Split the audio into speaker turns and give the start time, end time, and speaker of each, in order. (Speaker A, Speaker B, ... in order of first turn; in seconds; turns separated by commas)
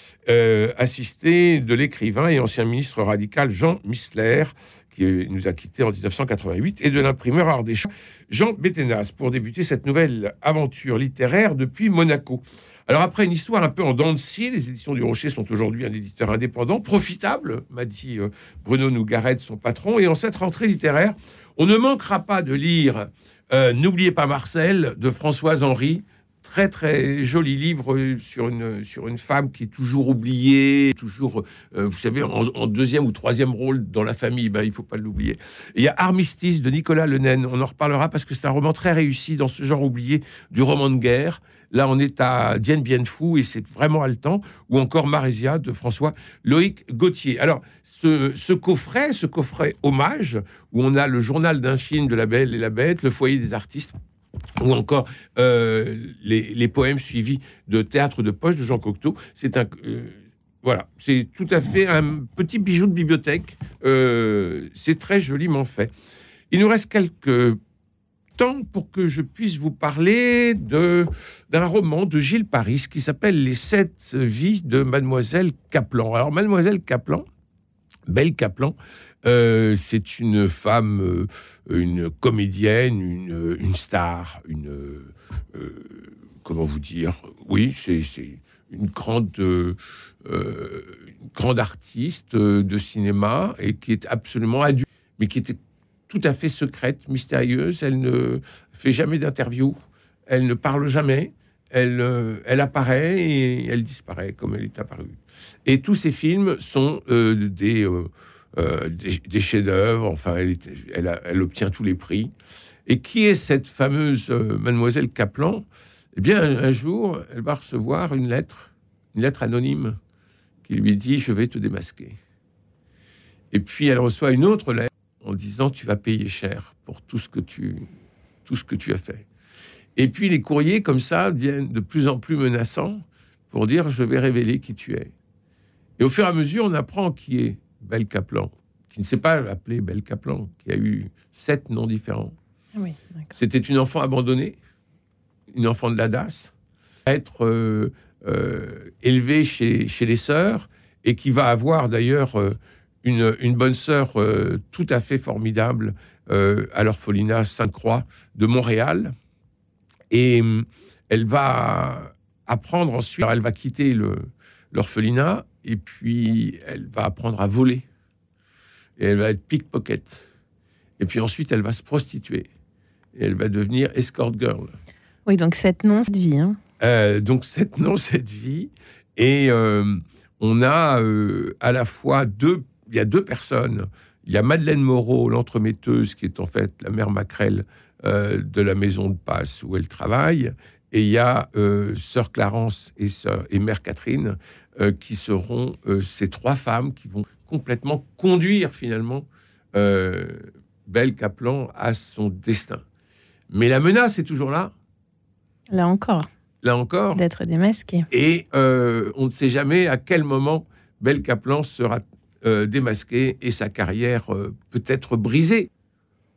Speaker A: 0.3-54.0, Speaker A: 54.6-65.9, Speaker A: 66.5-67.6, Speaker A: 68.4-77.2, Speaker A: 78.1-112.3, Speaker A: 112.9-120.0, Speaker A: 120.7-122.2, Speaker A: 123.5-127.8, Speaker A: 128.5-129.3, Speaker A: 130.0-135.1, Speaker A: 136.0-142.3, Speaker B: 142.8-143.3, Speaker A: 143.3-144.6, Speaker A: 145.5-146.5, Speaker A: 147.1-159.1, Speaker A: 160.1-167.8, Speaker A: 169.0-170.2, Speaker A: 171.0-172.5, Speaker A: 173.2-174.8, Speaker B: 175.3-176.6, Speaker A: 176.8-202.8, Speaker A: 203.5-204.7, Speaker B: 205.7-206.3, Speaker A: 206.6-207.2, Speaker B: 207.2-208.1, Speaker A: 208.1-215.7